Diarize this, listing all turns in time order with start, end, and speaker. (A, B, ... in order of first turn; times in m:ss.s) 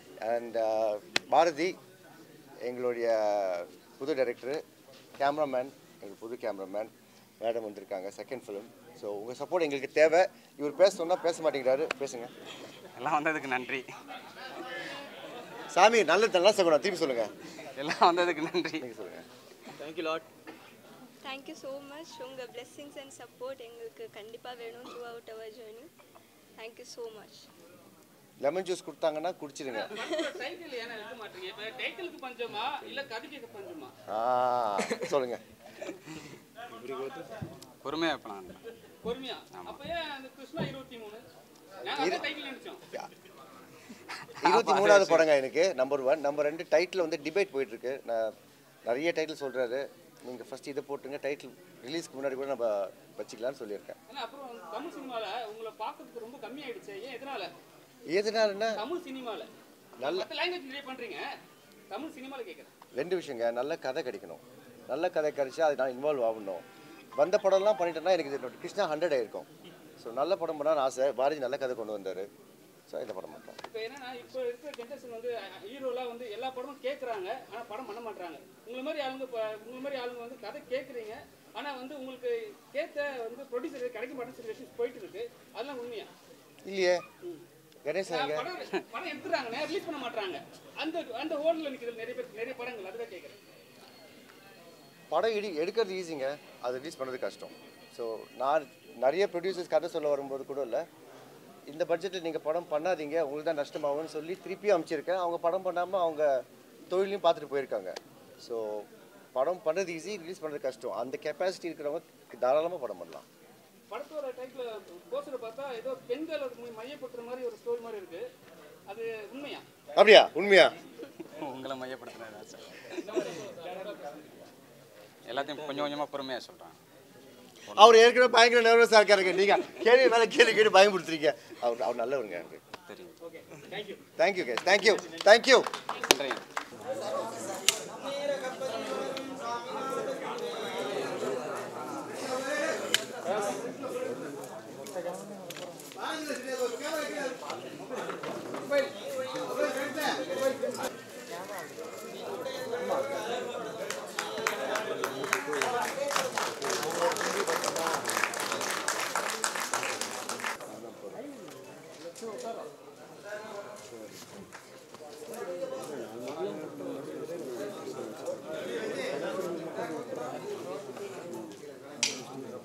0:00.2-0:01.8 A
0:02.6-0:04.6 A
0:05.2-0:12.3 A
0:12.9-0:13.8 B
0:15.7-0:17.3 A
0:17.8-0:18.8 B
0:18.8-0:19.2 A
0:19.7-0:20.2 B
0:21.2-0:25.9 C
0:26.6-0:27.5 C
0:28.4-0:30.0 A
0:29.7-0:33.9 D
0:34.1-0:35.4 A
0:35.8-0:37.3 B
0:37.8-0:38.6 B
0:39.0-0:41.2 D
0:39.5-0:39.8 B
0:41.8-0:42.8 D
0:42.0-0:42.3 A
0:44.1-0:45.3 B
0:44.4-0:48.3 A
0:48.8-0:54.0 A
0:54.1-0:57.5 D
0:58.1-0:58.8 A
0:58.8-0:59.5 D
1:00.0-1:00.3 A
1:00.0-1:01.2 D
1:01.9-1:02.7 D
1:02.9-1:06.6 A
1:07.2-1:09.5 A
1:10.0-1:12.2 A
1:12.9-1:13.6 A
1:13.6-1:26.1 D
1:26.6-1:27.0 A
1:27.8-1:28.5 A
1:28.1-1:33.4 D
1:35.1-1:40.8 A
1:41.7-1:53.2 A
1:53.9-1:58.2 D
1:58.9-1:59.6 D
1:59.9-2:00.7 A
2:01.2-2:03.4 B
2:03.1-2:04.3 D
2:05.2-2:06.8 B
2:07.7-2:08.0 B
2:07.7-2:12.6 A
2:12.9-2:13.1 B
2:14.2-2:15.7 A
2:16.0-2:16.4 B
2:40.7-2:41.2 A